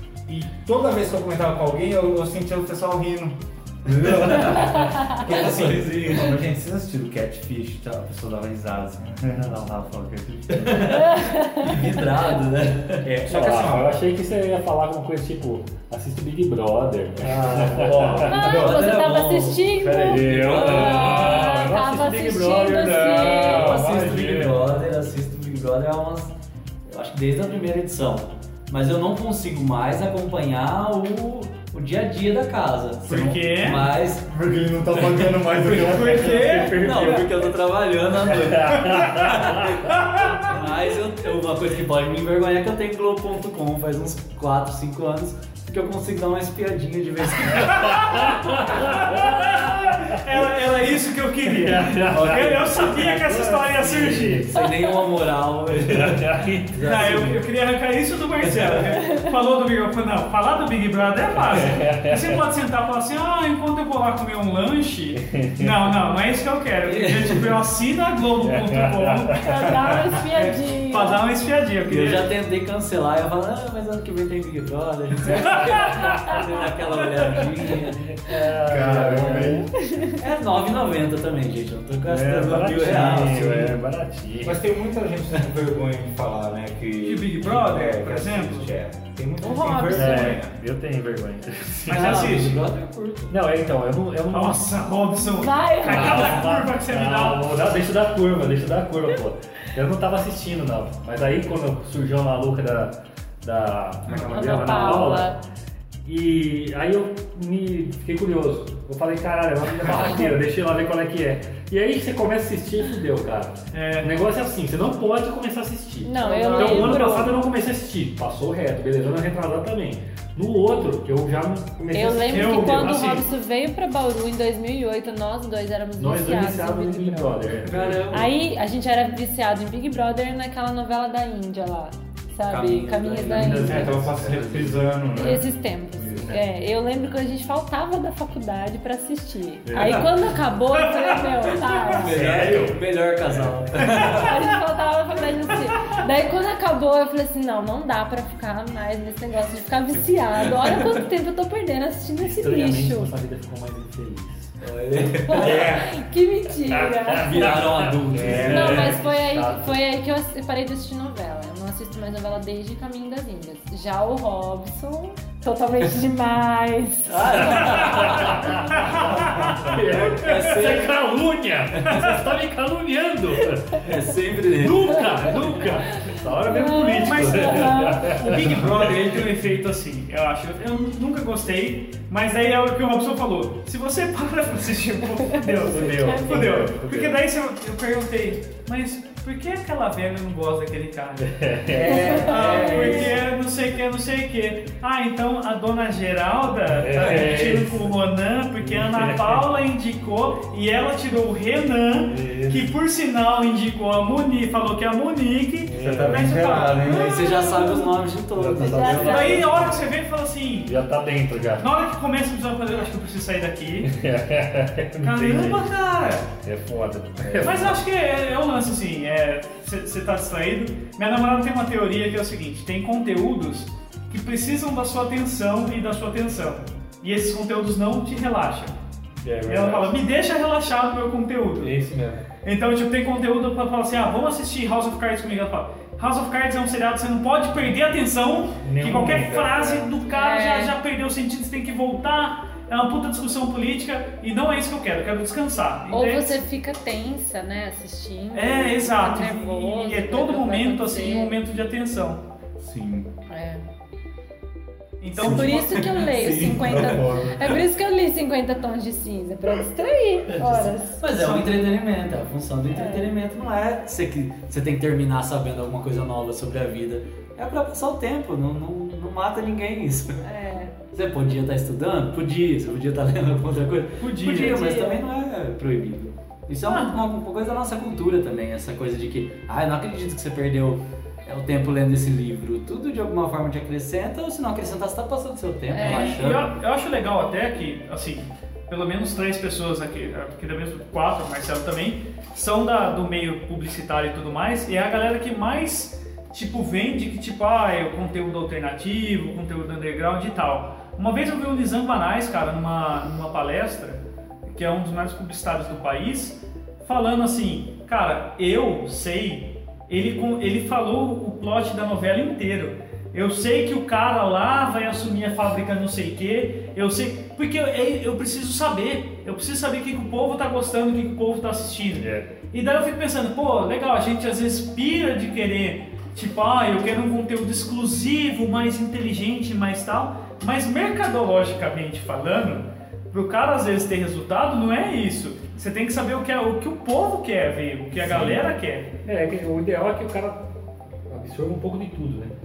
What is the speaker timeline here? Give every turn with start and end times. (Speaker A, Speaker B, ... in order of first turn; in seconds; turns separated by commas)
Speaker A: 0.3-10.9, Speaker B: 4.0-6.4, Speaker B: 10.5-13.1, Speaker C: 10.8-12.0, Speaker A: 13.0-14.0, Speaker D: 13.2-18.6, Speaker A: 17.2-18.9, Speaker B: 17.3-21.5, Speaker C: 18.2-23.7, Speaker D: 19.8-24.6, Speaker B: 23.1-26.3, Speaker B: 26.9-34.3, Speaker A: 33.0-33.7, Speaker E: 33.1-33.9, Speaker A: 34.2-36.7, Speaker B: 34.9-35.5, Speaker E: 35.6-37.2, Speaker D: 36.0-37.2, Speaker B: 36.7-48.8, Speaker D: 38.4-39.7, Speaker E: 39.9-40.5, Speaker E: 47.7-48.3, Speaker D: 48.0-49.6, Speaker E: 48.8-54.5, Speaker D: 51.5-54.5, Speaker B: 52.1-57.4, Speaker D: 55.8-56.8, Speaker E: 56.8-72.3, Speaker B: 58.4-58.9, Speaker D: 61.5-62.4, Speaker D: 65.1-65.9, Speaker B: 66.8-67.6, Speaker D: 68.4-69.7, Speaker C: 69.4-71.2, Speaker B: 71.8-78.3, Speaker D: 75.3-76.5, Speaker D: 77.2-79.7, Speaker A: 78.6-79.7, Speaker C: 79.7-80.2, Speaker B: 80.1-83.7, Speaker D: 82.0-84.6, Speaker A: 84.4-90.6, Speaker E: 87.0-88.7, Speaker C: 89.4-90.4, Speaker D: 89.9-92.3, Speaker B: 91.9-93.3, Speaker E: 91.9-92.6, Speaker D: 93.3-94.7, Speaker E: 94.3-97.5, Speaker C: 95.2-96.5, Speaker D: 95.8-105.4, Speaker E: 104.1-104.9, Speaker C: 104.3-105.4, Speaker D: 106.0-122.9, Speaker E: 113.7-114.2, Speaker C: 116.0-117.3, Speaker E: 116.5-117.2, Speaker C: 121.9-133.9, Speaker E: 122.3-123.3, Speaker D: 126.0-128.3, Speaker B: 127.7-128.3, Speaker B: 132.5-134.7, Speaker D: 133.3-134.4, Speaker A: 133.3-136.4, Speaker C: 135.1-142.1, Speaker D: 139.7-140.2, Speaker E: 140.8-141.8, Speaker B: 141.9-144.3, Speaker D: 142.1-142.8, Speaker E: 143.8-144.2, Speaker C: 144.1-153.1, Speaker D: 152.2-154.5, Speaker B: 154.6-155.7, Speaker C: 155.3-157.6, Speaker A: 155.4-155.9, Speaker D: 156.7-159.8, Speaker B: 157.2-159.0, Speaker A: 158.1-158.9, Speaker C: 158.4-167.7, Speaker B: 167.1-168.4, Speaker D: 167.4-173.9, Speaker E: 168.7-169.5, Speaker A: 168.9-170.1, Speaker B: 170.1-170.9, Speaker E: 171.9-172.2, Speaker B: 173.8-175.3, Speaker D: 174.6-178.9, Speaker C: 176.0-178.1, Speaker E: 177.0-191.4, Speaker D: 185.6-187.2, Speaker C: 186.0-186.3, Speaker D: 191.2-192.5, Speaker A: 191.7-193.2, Speaker C: 191.8-193.1, Speaker E: 192.1-207.7, Speaker D: 196.7-197.9, Speaker D: 198.6-199.5, Speaker D: 202.1-202.7, Speaker D: 205.6-206.5, Speaker A: 205.7-207.3, Speaker B: 206.8-209.7, Speaker C: 207.1-207.9, Speaker D: 208.3-209.9, Speaker C: 208.6-209.4, Speaker E: 209.0-210.8, Speaker D: 210.6-211.7, Speaker E: 211.6-213.9, Speaker D: 213.8-215.7, Speaker E: 215.0-216.3, Speaker D: 216.4-217.8, Speaker E: 217.3-228.8, Speaker D: 229.2-229.9, Speaker E: 229.4-231.7, Speaker D: 231.6-232.2, Speaker E: 232.4-246.4, Speaker D: 238.6-239.9, Speaker C: 240.0-240.8, Speaker C: 245.9-251.3, Speaker E: 248.3-252.2, Speaker A: 252.6-253.1, Speaker C: 253.3-253.6, Speaker E: 255.0-256.1, Speaker C: 255.2-261.0, Speaker A: 255.2-257.6, Speaker B: 260.3-270.2, Speaker E: 261.1-261.5, Speaker C: 262.7-263.1, Speaker C: 270.2-270.7, Speaker B: 270.9-286.5, Speaker E: 274.0-274.9, Speaker C: 274.5-275.0, Speaker E: 276.6-276.9, Speaker C: 285.7-286.2, Speaker E: 285.8-338.9, Speaker D: 321.9-322.3, Speaker B: 338.0-338.3, Speaker D: 338.1-338.4, Speaker D: 339.0-340.5, Speaker D: 341.1-342.3